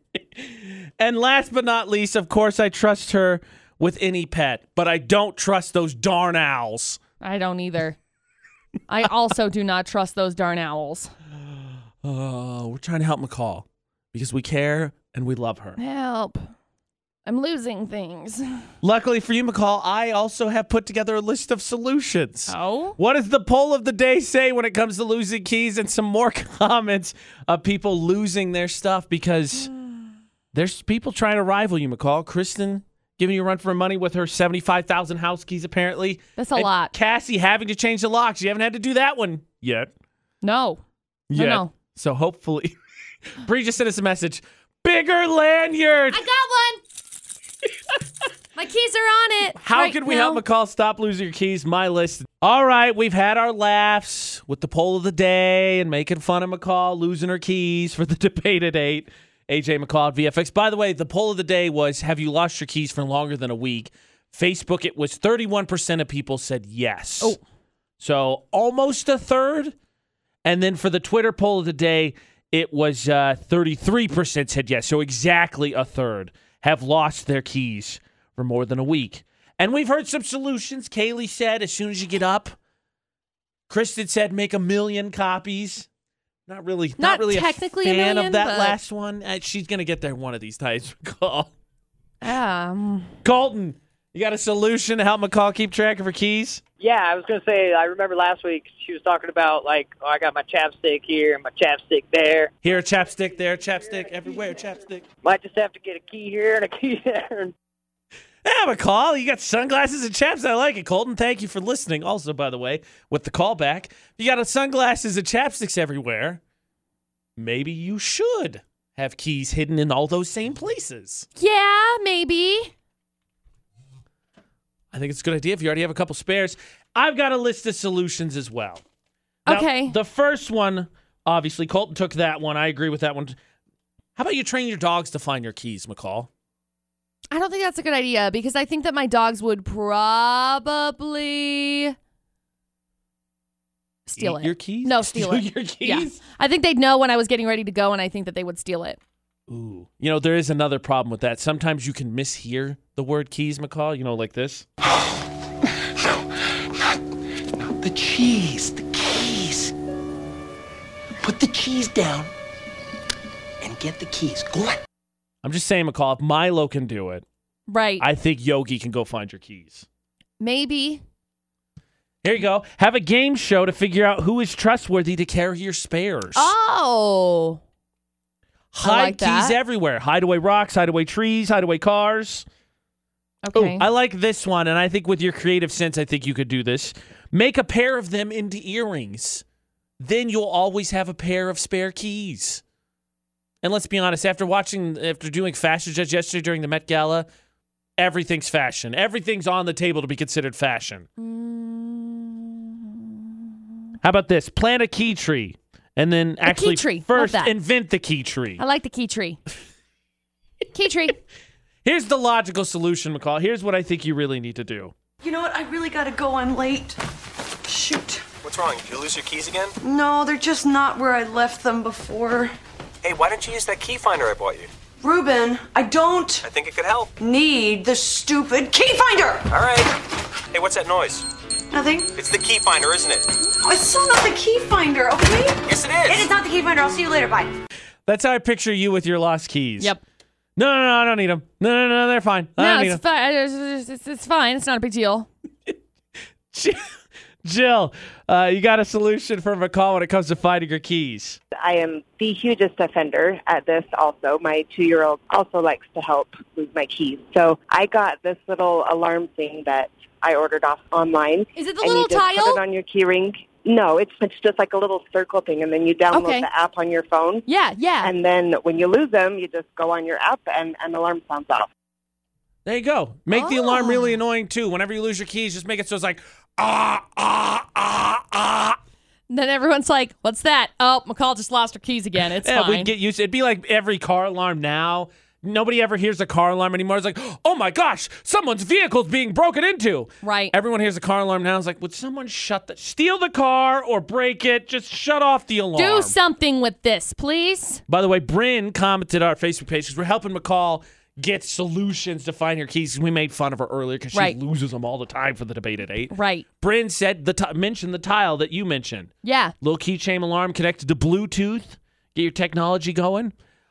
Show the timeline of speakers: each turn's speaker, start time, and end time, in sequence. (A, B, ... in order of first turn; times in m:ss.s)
0:00.2-0:07.0 A
0:07.2-0:08.0 B
0:08.9-0:11.1 B
0:12.0-0:15.8 A
0:15.8-0:16.5 B
0:17.2-0:18.6 B
0:18.8-0:29.7 A
0:22.5-0:23.0 B
0:30.5-0:39.9 A
0:36.4-0:36.9 B
0:40.4-0:40.8 B
0:41.3-0:42.7 A
0:41.3-0:41.7 B
0:43.4-0:46.2 A
0:46.1-0:46.8 B
0:48.6-0:50.4 B
0:49.6-1:07.4 A
1:08.0-1:09.7 A
1:10.4-1:22.6 A
1:23.7-1:25.9 A
1:26.5-1:31.5 A
1:27.0-1:28.8 B
1:32.2-1:33.1 B
1:33.2-1:36.6 A
1:36.8-1:42.5 C
1:42.6-1:45.0 A
1:45.2-1:47.5 C
1:48.4-1:56.4 A
1:57.4-2:01.2 A
2:01.4-2:02.7 B
2:04.9-2:08.8 A
2:09.5-2:10.0 B
2:09.5-2:13.4 A
2:14.2-2:16.3 A
2:17.3-2:21.9 B
2:24.1-2:29.0 B
2:24.2-2:26.2 A
2:29.5-2:34.6 A
2:37.6-2:39.7 D
2:41.2-2:42.3 D
2:43.6-2:44.8 D
2:45.4-2:47.2 A
2:47.7-2:48.0 B
2:48.0-2:49.9 A
2:50.4-2:51.0 B
2:52.2-2:56.5 A
2:56.3-2:57.6 B
2:58.7-3:02.4 A
2:58.8-2:59.6 B
3:03.4-3:03.8 B
3:03.5-3:09.4 A
3:10.0-3:12.6 A
3:13.6-3:17.3 A
3:18.0-3:21.1 A
3:21.2-3:23.5 B
3:24.0-3:28.6 A
3:26.4-3:27.5 B
3:28.6-3:29.4 B
3:30.7-3:31.2 B
3:31.8-3:34.9 A
3:35.2-3:37.0 E
3:37.6-3:38.2 E
3:38.4-3:39.7 F
3:39.8-3:42.5 E
3:43.0-3:44.7 F
3:45.0-3:46.5 E
3:46.4-3:47.1 F
3:47.1-3:49.7 E
3:49.5-3:49.9 F
3:50.5-3:51.2 F
3:51.7-3:52.4 E
3:52.2-3:53.2 F
3:53.5-3:57.5 E
3:55.7-3:56.3 F
3:58.1-3:59.9 A
4:00.6-4:03.0 A
4:02.6-4:05.3 B
4:06.5-4:06.8 A
4:07.4-4:11.4 A
4:11.5-4:27.4 G
4:21.6-4:22.6 B
4:26.1-4:26.5 B
4:27.4-4:28.1 B
4:28.0-4:31.7 G
4:32.6-4:38.8 A
4:33.3-4:34.2 B
4:39.3-4:42.9 B
4:42.4-4:56.1 A
4:50.2-4:50.5 B
4:55.8-4:57.8 B
4:57.9-5:09.1 A
5:06.1-5:06.4 B
5:09.2-5:09.5 B
5:09.6-5:13.3 A